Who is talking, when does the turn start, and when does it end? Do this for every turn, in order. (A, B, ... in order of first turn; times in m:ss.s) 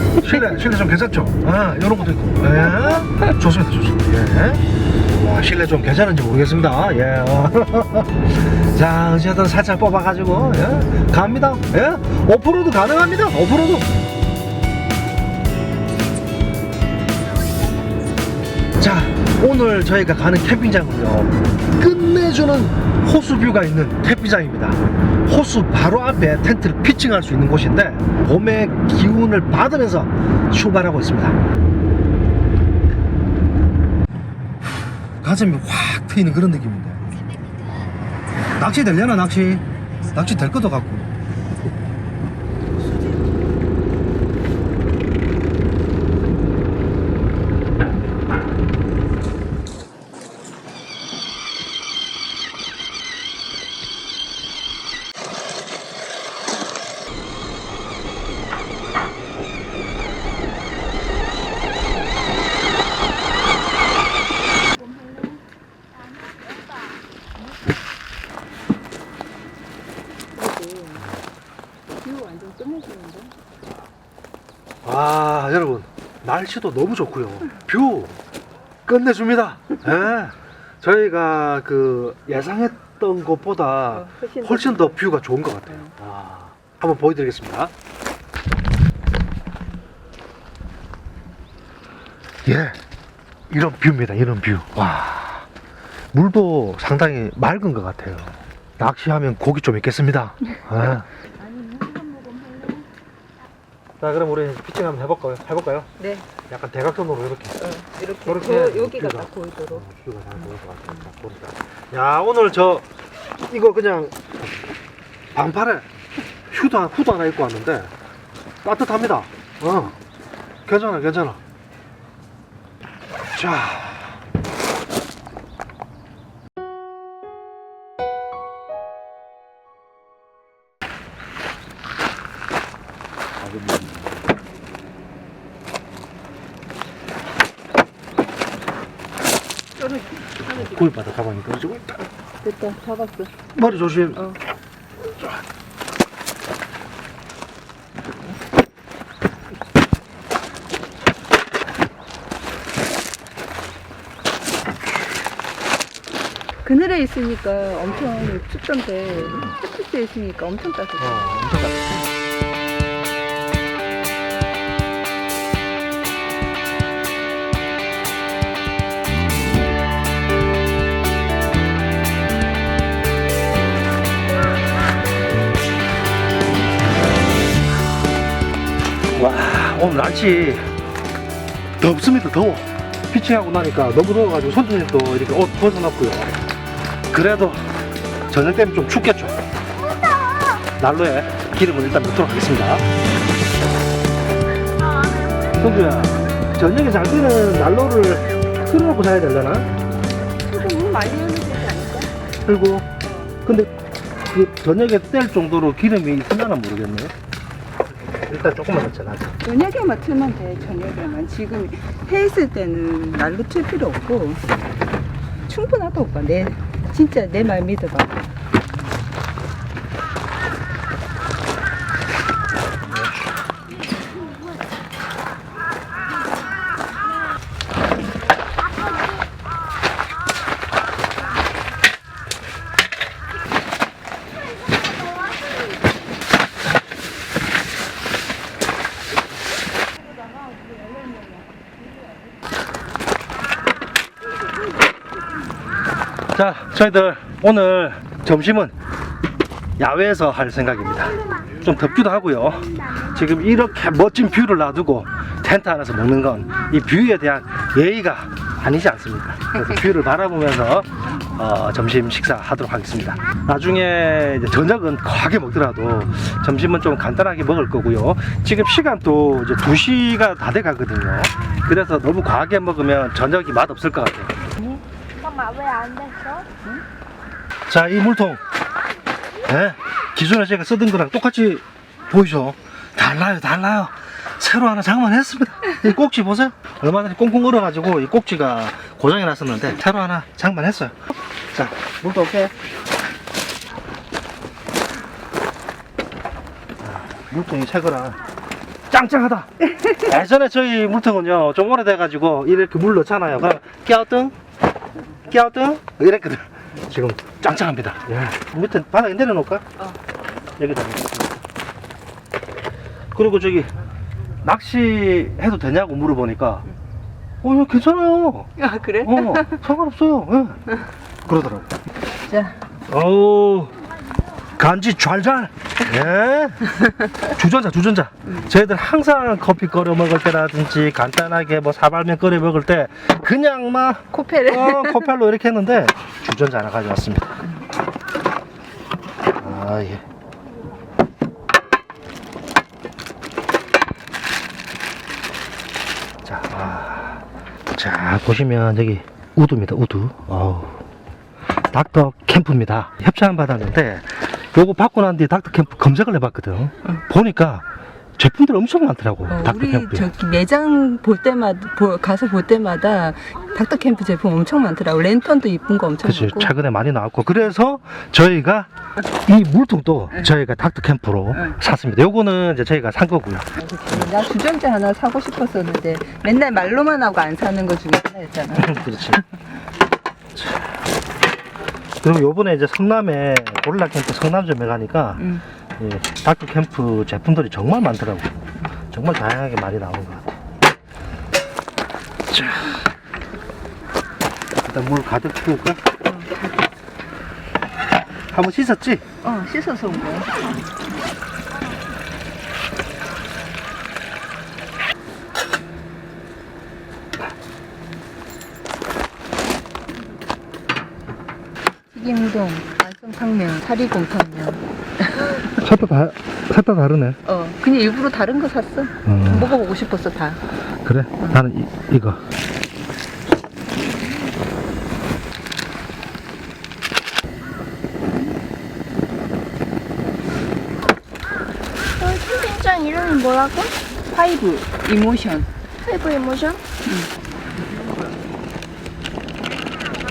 0:00.2-0:13.9 A
0:18.8-0:31.4 A
0:35.2-0:37.1 A
0:38.6-0:41.1 A
1:10.3-1:11.0 B
1:12.0-1:13.3 B
1:14.8-1:18.2 A
1:18.8-1:27.7 A
1:23.9-1:25.9 B
1:32.4-1:32.8 A
1:33.5-1:35.5 A
1:36.1-1:41.1 A
1:41.6-1:42.8 B
1:44.0-1:45.9 A
1:46.0-1:46.3 B
1:46.5-1:47.6 A
1:47.6-1:49.8 B
1:48.2-1:52.9 A
1:53.5-1:54.4 A
1:55.3-1:55.9 A
1:56.5-1:57.9 A
1:58.6-2:00.0 A
2:00.6-2:01.4 A
2:03.3-2:04.2 A
2:13.4-2:14.1 A
2:20.4-2:21.9 A
2:22.4-2:23.3 B
2:23.5-2:24.3 A
2:36.6-2:41.4 B
2:41.0-2:42.0 A
2:59.1-3:00.7 A
3:01.8-3:06.3 A
3:07.1-3:07.7 A
3:08.3-3:09.4 A
3:10.8-3:12.8 A
3:15.5-3:19.7 A
3:20.4-3:22.1 B
3:22.4-3:22.9 A
3:23.0-3:23.3 B
3:23.4-3:23.7 A
3:24.3-3:27.1 A
3:28.3-3:29.3 A
3:29.4-3:34.4 B
3:35.5-3:38.2 B
3:42.8-3:43.4 A
4:06.3-4:08.7 A
4:09.8-4:34.3 A
4:35.2-4:36.5 C
4:37.7-4:38.4 A
4:39.4-4:52.5 A
4:56.8-4:58.2 A
4:58.9-5:04.3 A
5:05.2-5:09.6 A
5:10.6-5:11.4 A
5:13.1-5:13.7 A
5:14.4-5:16.6 A
5:17.4-5:20.6 A
5:18.6-5:19.6 B
5:21.2-5:21.7 A
5:22.3-5:22.6 B
5:22.9-5:23.8 A
5:24.6-5:37.4 A
5:34.1-5:35.1 B
5:39.4-5:40.0 A
5:46.2-5:47.2 A
5:47.7-5:50.8 A
5:51.6-5:57.6 A
5:58.2-6:00.1 A
5:59.3-6:06.5 B
6:06.0-6:14.1 A
6:13.5-6:19.2 B
6:18.5-6:19.2 A
6:20.3-6:20.8 A
6:22.0-6:30.3 A
6:25.2-6:25.4 B
6:32.3-6:32.8 A
6:34.6-6:35.8 A
6:36.0-6:36.3 B
6:38.3-6:39.0 A
6:39.2-6:40.3 B
6:51.9-6:55.4 B
6:55.6-6:57.2 A
6:57.2-7:00.4 B
6:59.0-6:59.6 A
7:00.8-7:02.2 A
7:12.0-7:13.7 C
7:14.1-7:15.5 B
7:15.8-7:16.6 C
7:16.8-7:17.1 B